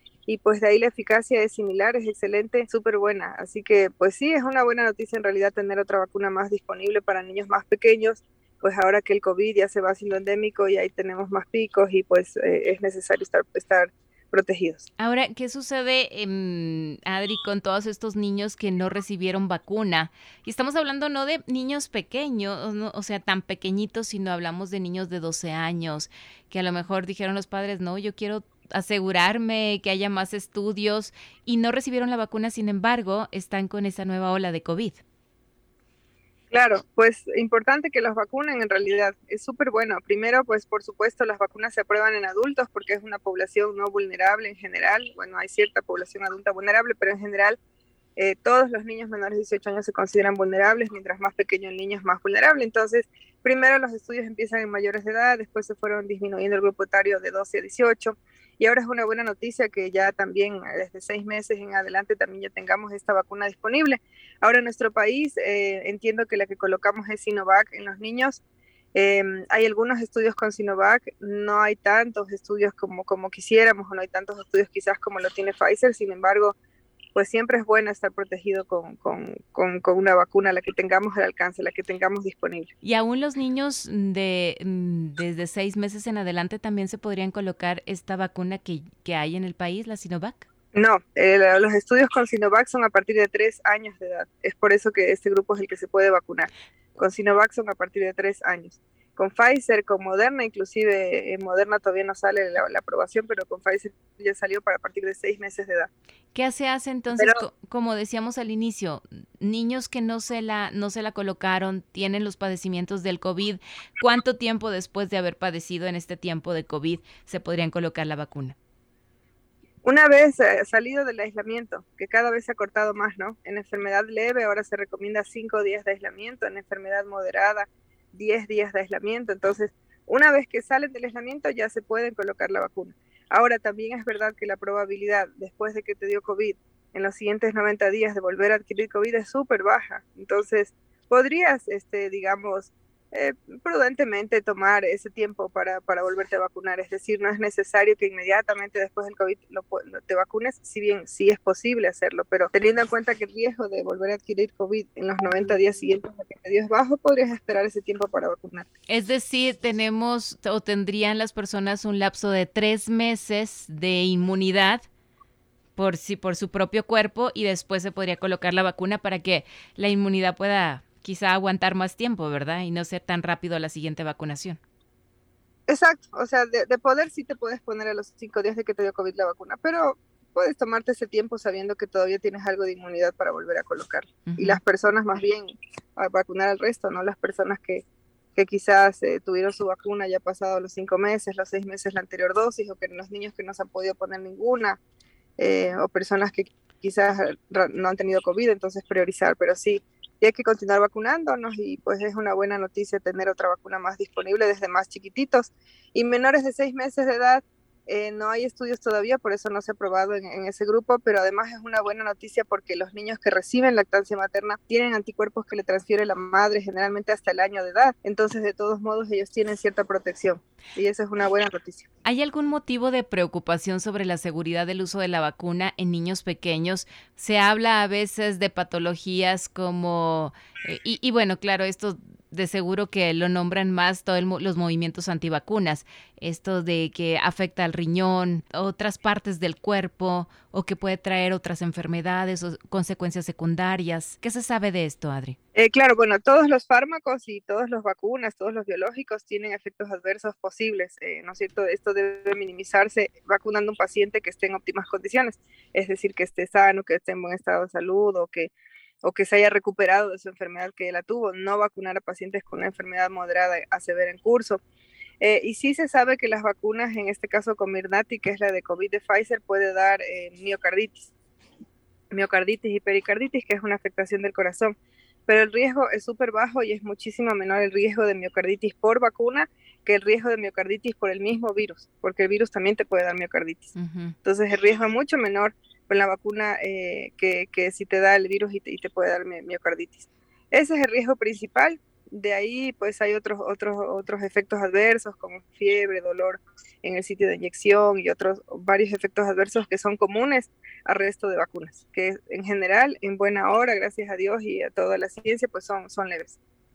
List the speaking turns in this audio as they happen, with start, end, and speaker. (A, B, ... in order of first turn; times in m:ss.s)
0:00.2-0:14.9 A
0:15.0-0:35.0 B
0:36.5-0:47.6 A
0:48.2-1:08.4 A
1:08.9-1:16.5 A
1:17.1-1:22.7 A
1:22.8-1:30.5 B
1:30.7-1:45.9 A
1:46.3-1:58.5 B
1:59.8-2:38.7 A
2:38.9-2:44.8 B
2:45.8-2:54.6 B
2:55.7-3:07.8 A
3:04.3-3:04.6 B
3:08.4-3:14.8 A
3:15.4-3:41.8 A
3:42.0-4:05.4 B
4:05.6-4:18.5 A
4:19.0-4:24.6 A
4:25.2-4:31.1 A
4:32.1-4:34.7 A
4:35.3-4:43.7 A
4:43.8-4:44.2 B
4:44.2-5:06.4 A